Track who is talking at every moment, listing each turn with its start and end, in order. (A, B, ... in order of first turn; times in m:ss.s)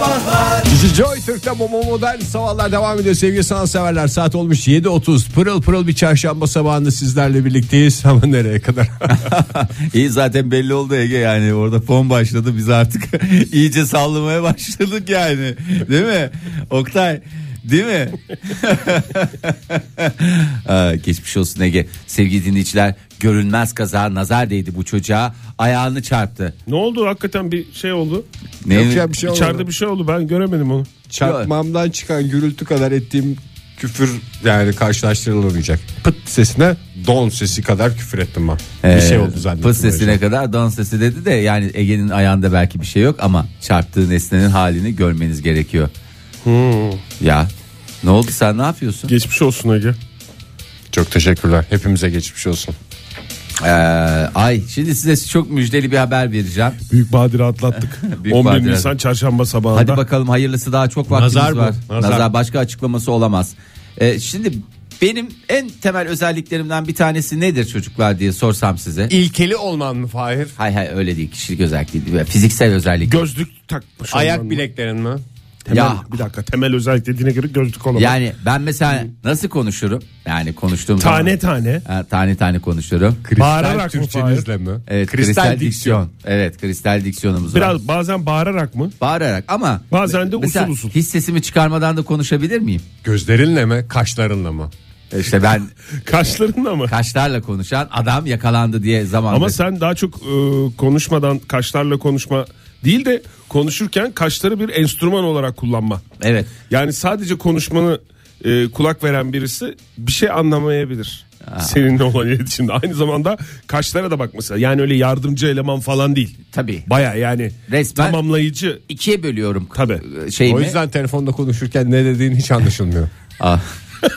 0:00.7-0:09.3 A
0:09.1-0:26.5 B
0:26.7-0:28.3 C
0:28.6-0:29.1 B
0:28.7-0:29.7 A
0:29.2-0:30.9 C
0:31.1-0:40.2 A
0:31.2-0:31.5 B
0:38.8-0:45.9 B
0:46.4-0:47.0 C
0:47.2-0:47.5 B
0:48.0-0:49.1 B
0:49.1-0:50.0 C
0:50.9-0:52.8 A
0:53.6-0:56.8 B
0:56.9-1:00.0 C
0:58.1-0:58.9 B
0:59.7-1:09.1 B
1:01.1-1:02.3 A
1:09.1-1:10.6 A
1:10.6-1:13.2 B
1:13.0-1:14.6 C
1:14.1-1:15.2 A
1:15.7-1:18.2 C
1:15.7-1:16.1 B
1:18.0-1:23.2 B
1:21.0-1:21.8 C
1:23.2-1:26.0 A
1:23.4-1:24.5 C
1:24.9-1:27.7 B
1:27.5-1:28.9 C
1:29.0-1:32.8 B
1:29.9-1:30.9 C
1:33.0-1:34.7 A
1:35.1-1:35.7 B
1:36.0-1:36.9 C
1:36.9-1:39.6 B
1:39.3-1:46.0 C
1:46.2-1:46.5 B
1:46.7-1:58.8 C
1:51.5-1:51.7 B
1:56.5-1:56.9 B
1:57.7-1:58.2 B
1:58.9-2:00.8 B
1:59.7-2:00.0 C
2:00.4-2:03.1 A